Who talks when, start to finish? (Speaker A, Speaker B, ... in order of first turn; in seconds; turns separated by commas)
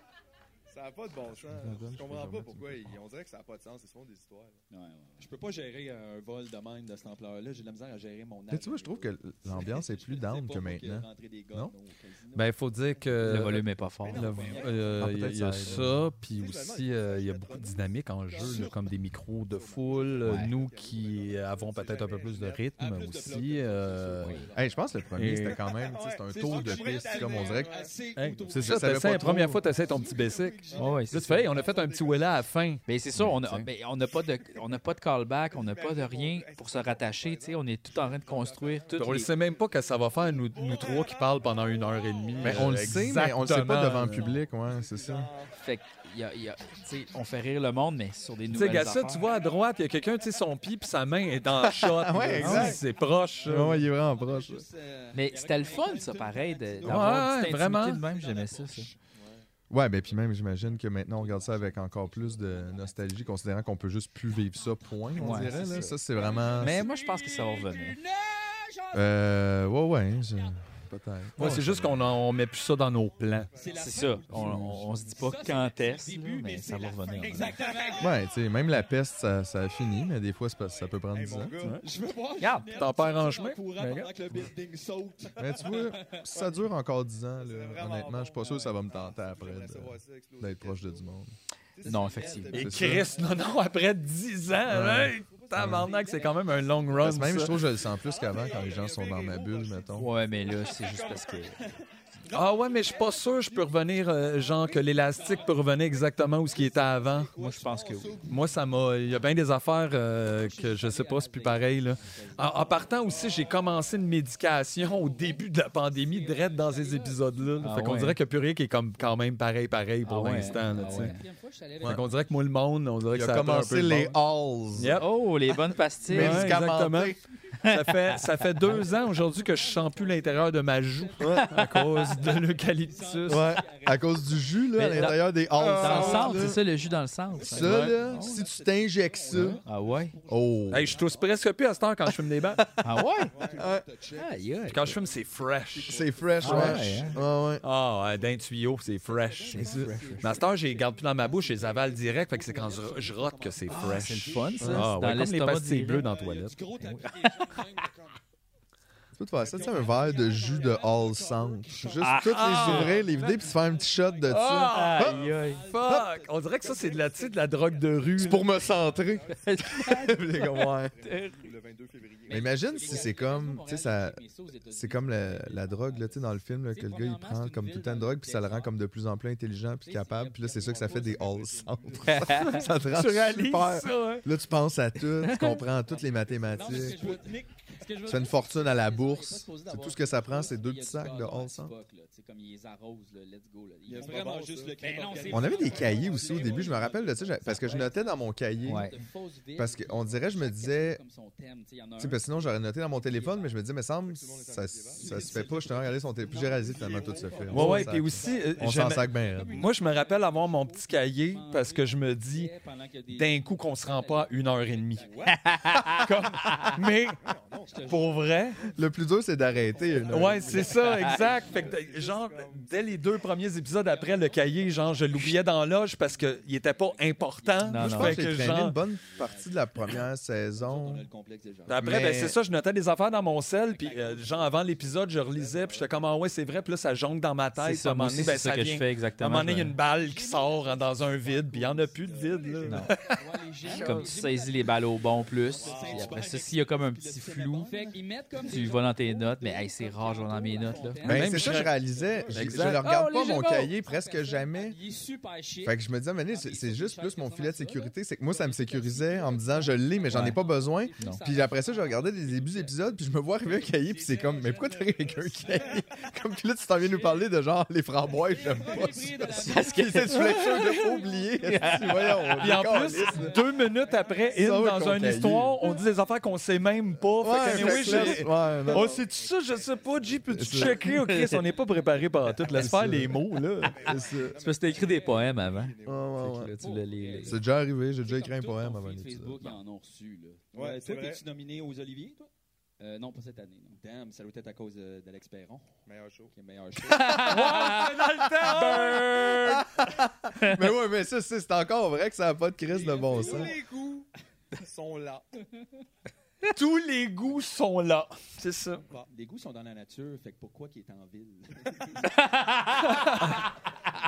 Speaker A: 0.7-4.6, Speaker B: 1.5-2.9, Speaker C: 4.7-5.3, Speaker D: 5.2-12.5, Speaker B: 8.5-11.7, Speaker E: 12.3-24.4, Speaker A: 12.9-32.6, Speaker F: 13.2-14.3, Speaker D: 14.1-14.9, Speaker B: 15.0-15.9, Speaker D: 18.4-18.6, Speaker F: 20.2-20.5, Speaker D: 22.8-24.6, Speaker F: 24.2-24.5, Speaker B: 24.5-27.7, Speaker E: 25.1-25.6, Speaker D: 26.3-30.9, Speaker E: 28.1-33.7, Speaker B: 28.5-29.6, Speaker F: 30.7-31.5, Speaker F: 32.9-39.3, Speaker A: 34.0-34.8, Speaker A: 35.5-42.9, Speaker E: 38.9-44.4, Speaker B: 42.4-45.3, Speaker A: 43.9-45.6, Speaker F: 45.6-49.3, Speaker E: 48.5-53.9, Speaker B: 51.6-52.8, Speaker F: 52.4-52.8, Speaker D: 52.6-59.0, Speaker B: 53.4-54.6, Speaker F: 55.1-58.9, Speaker C: 55.5-56.3, Speaker E: 56.8-58.0, Speaker A: 59.1-59.4, Speaker B: 59.7-66.9, Speaker D: 61.3-62.6, Speaker F: 65.2-66.0, Speaker C: 65.2-69.1, Speaker D: 65.4-65.7, Speaker F: 66.5-68.0, Speaker B: 68.9-72.1, Speaker E: 71.3-73.5, Speaker D: 73.5-75.0, Speaker C: 73.5-78.1, Speaker F: 73.7-77.6, Speaker D: 77.2-78.1, Speaker B: 78.0-81.5, Speaker A: 81.1-81.8, Speaker D: 81.8-85.8, Speaker F: 82.4-82.7, Speaker E: 82.7-84.0, Speaker C: 82.8-83.2, Speaker F: 83.8-84.0, Speaker B: 85.4-91.3, Speaker C: 85.8-86.3, Speaker A: 87.4-91.2, Speaker A: 91.7-94.0, Speaker F: 91.8-92.7, Speaker D: 91.9-93.7, Speaker E: 92.5-97.6, Speaker B: 92.5-93.1, Speaker B: 94.7-95.9, Speaker A: 94.9-101.7, Speaker D: 95.7-101.6, Speaker B: 97.0-100.1, Speaker F: 100.0-101.6, Speaker D: 102.3-108.6, Speaker E: 102.3-107.3, Speaker A: 104.7-105.6, Speaker A: 106.4-108.5, Speaker F: 107.3-108.2, Speaker E: 108.3-121.1, Speaker C: 110.2-114.0, Speaker D: 112.8-113.9, Speaker C: 114.8-118.0, Speaker F: 117.6-118.2, Speaker F: 120.0-121.2, Speaker C: 120.4-122.5, Speaker E: 121.8-124.2, Speaker B: 123.1-125.0, Speaker E: 124.7-125.1, Speaker F: 124.9-126.6, Speaker B: 126.1-127.2, Speaker E: 126.1-133.5, Speaker F: 127.6-128.8, Speaker C: 128.6-134.7, Speaker D: 129.1-129.7, Speaker B: 131.2-131.5, Speaker F: 131.4-132.0, Speaker B: 133.3-136.6, Speaker F: 134.7-138.4, Speaker A: 135.6-136.5, Speaker D: 135.9-136.7, Speaker C: 136.0-137.0, Speaker D: 137.3-148.4, Speaker B: 137.5-139.6, Speaker E: 137.6-137.9, Speaker F: 139.6-140.1, Speaker B: 140.3-140.9, Speaker E: 140.7-142.7, Speaker F: 142.8-143.3, Speaker A: 143.2-144.3, Speaker B: 143.6-143.8, Speaker F: 144.2-145.0, Speaker E: 144.6-146.8, Speaker A: 145.6-147.6, Speaker B: 145.9-147.6, Speaker F: 146.4-147.2, Speaker E: 147.6-156.6, Speaker D: 149.0-154.9, Speaker A: 149.4-151.3, Speaker F: 149.5-150.3, Speaker B: 149.6-149.9, Speaker F: 153.7-156.1, Speaker B: 154.6-154.9, Speaker D: 155.8-158.2, Speaker F: 156.8-157.9, Speaker B: 159.1-165.2, Speaker A: 159.4-161.3, Speaker D: 159.4-168.0, Speaker F: 162.0-162.9, Speaker E: 162.0-163.2, Speaker A: 163.2-164.3, Speaker E: 164.3-168.5, Speaker F: 164.7-165.6, Speaker A: 165.6-173.4, Speaker B: 168.1-170.9, Speaker F: 169.4-171.4, Speaker C: 172.3-178.8, Speaker B: 172.3-187.1, Speaker C: 179.8-181.1, Speaker A: 180.4-182.9, Speaker F: 182.0-182.6, Speaker E: 182.2-184.3, Speaker F: 185.2-185.6, Speaker A: 185.8-186.7, Speaker D: 186.5-187.8, Speaker C: 186.6-203.4, Speaker B: 188.1-191.7, Speaker D: 193.9-196.8, Speaker A: 193.9-197.8, Speaker B: 195.3-198.9, Speaker F: 198.6-198.9, Speaker B: 199.6-201.0, Speaker B: 202.0-209.7, Speaker A: 203.5-207.9, Speaker C: 205.0-205.6, Speaker C: 206.3-215.5, Speaker D: 206.6-210.1, Speaker E: 207.5-212.5, Speaker E: 213.1-215.1, Speaker D: 215.0-215.4, Speaker F: 215.3-216.8, Speaker E: 215.9-217.2, Speaker A: 216.6-223.6, Speaker C: 217.7-218.2, Speaker E: 217.8-218.6, Speaker B: 218.7-220.7, Speaker E: 220.1-228.8, Speaker C: 220.4-221.8, Speaker D: 220.6-221.7, Speaker F: 220.9-221.2, Speaker C: 223.8-226.7, Speaker D: 226.6-229.9, Speaker F: 227.6-228.2, Speaker B: 227.8-231.1, Speaker D: 230.5-232.3, Speaker E: 231.7-243.2, Speaker B: 231.7-232.4, Speaker D: 233.8-234.8, Speaker A: 235.2-236.3, Speaker D: 235.4-235.8, Speaker F: 237.6-239.8, Speaker A: 240.0-242.8, Speaker C: 240.2-240.9, Speaker D: 240.5-242.2, Speaker F: 242.6-242.9, Speaker C: 243.1-246.4, Speaker D: 243.7-244.0, Speaker F: 243.7-247.7, Speaker D: 245.4-248.0, Speaker A: 245.5-246.3, Speaker C: 247.6-262.8, Speaker F: 248.4-251.1, Speaker E: 251.1-251.8, Speaker B: 251.1-254.8, Speaker A: 251.9-252.4, Speaker E: 252.3-252.9, Speaker F: 252.9-253.5, Speaker B: 255.6-273.4, Speaker F: 260.1-260.4, Speaker A: 263.6-266.1, Speaker C: 264.1-265.8, Speaker D: 264.2-264.6, Speaker C: 266.8-267.3, Speaker C: 268.0-272.3, Speaker A: 268.4-268.9, Speaker F: 269.3-272.5, Speaker E: 272.4-283.8, Speaker C: 272.8-275.1, Speaker A: 272.9-274.8, Speaker B: 274.3-275.6, Speaker A: 276.9-286.3, Speaker B: 277.2-279.0, Speaker B: 280.3-280.8, Speaker F: 280.8-281.4, Speaker B: 282.5-283.2, Speaker B: 283.8-284.4, Speaker F: 284.3-287.4, Speaker B: 285.8-286.6, Speaker C: 286.6-287.4, Speaker B: 287.2-289.6, Speaker C: 287.9-290.4, Speaker D: 290.5-292.3, Speaker A: 290.5-291.2, Speaker C: 292.8-293.8, Speaker D: 293.8-295.7, Speaker A: 295.9-296.3, Speaker D: 296.3-298.9, Speaker F: 296.8-297.9, Speaker E: 297.1-299.6, Speaker F: 298.5-299.6, Speaker B: 299.1-303.6, Speaker F: 300.3-300.6, Speaker A: 302.7-305.3, Speaker E: 306.4-308.8, Speaker D: 308.9-312.2, Speaker A: 311.7-312.0, Speaker F: 312.0-313.4, Speaker D: 312.8-313.4, Speaker E: 312.8-313.4